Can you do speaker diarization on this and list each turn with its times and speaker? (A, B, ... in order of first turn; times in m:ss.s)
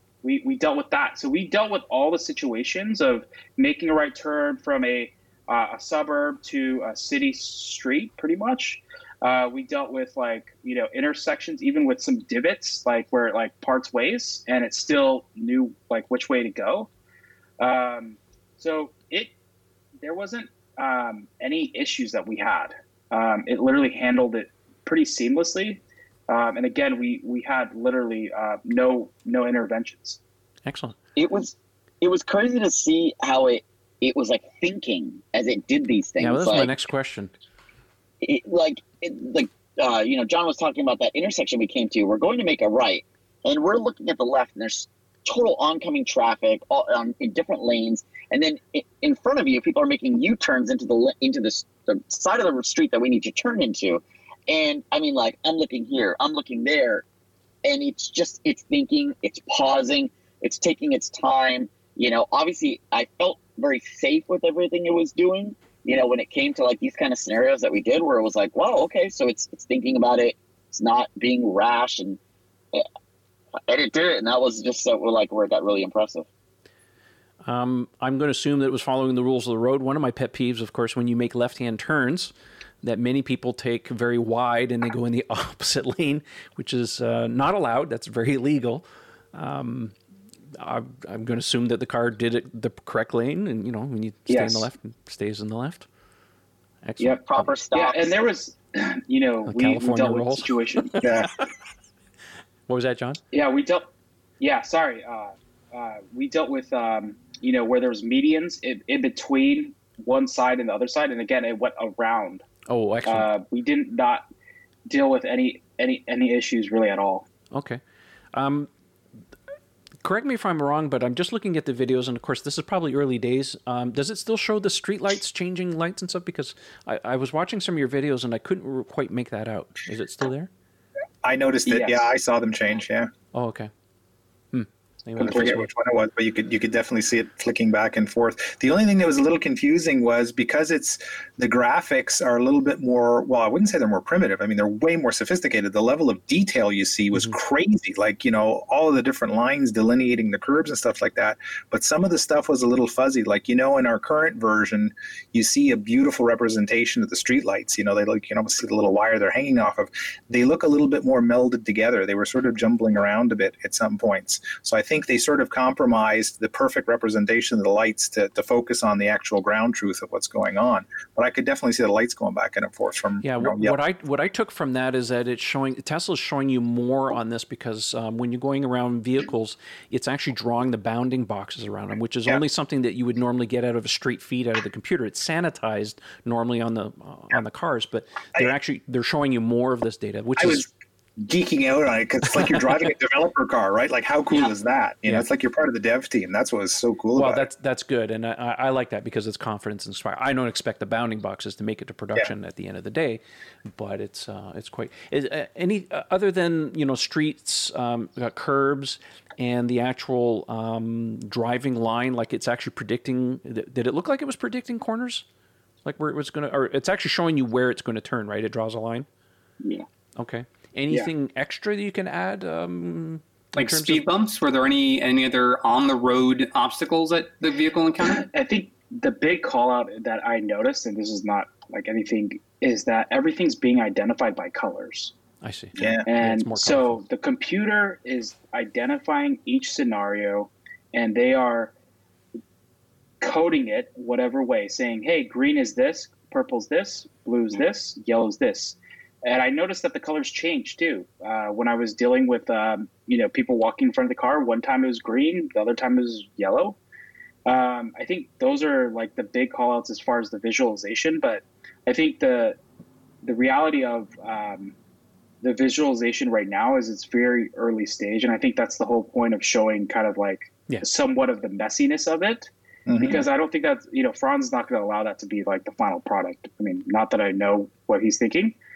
0:00.2-0:16.9 A
0:17.6-0:19.3 A
0:20.0-0:30.2 A
0:30.6-0:31.0 B
0:31.2-0:36.7 C
0:36.2-0:37.3 B
0:38.2-0:57.0 C
0:57.6-1:12.2 C
1:13.7-1:16.3 C
1:17.4-1:22.3 B
1:22.8-1:29.9 B
1:30.6-1:35.9 B
1:34.3-1:34.7 A
1:36.8-1:37.5 B
1:37.0-1:41.0 A
1:37.3-1:38.3 C
1:39.4-1:41.3 B
1:41.0-1:41.3 D
1:42.7-1:43.2 B
1:43.3-1:43.8 A
1:44.4-1:52.4 A
1:52.7-1:53.3 B
1:53.0-1:54.2 A
1:54.9-1:57.3 A
1:57.5-1:57.8 B
1:58.3-1:58.7 B
2:00.0-2:10.5 B
2:11.2-2:13.1 D
2:11.6-2:12.1 A
2:13.3-2:13.7 B
2:14.5-2:15.7 B
2:15.2-2:53.8 D
2:53.2-3:10.7 B
3:10.4-3:10.7 D
3:11.2-3:17.5 D
3:17.2-3:23.2 B
3:23.7-3:35.2 B
3:35.8-3:39.1 B
3:40.2-3:44.0 B
3:43.6-3:48.3 E
3:48.3-3:55.1 A
3:55.4-3:57.0 B
3:55.8-3:56.0 D
3:56.0-4:01.7 A
4:03.2-4:16.8 A
4:17.4-4:22.6 A
4:23.2-4:24.7 A
4:25.4-4:38.6 A
4:32.9-4:33.2 D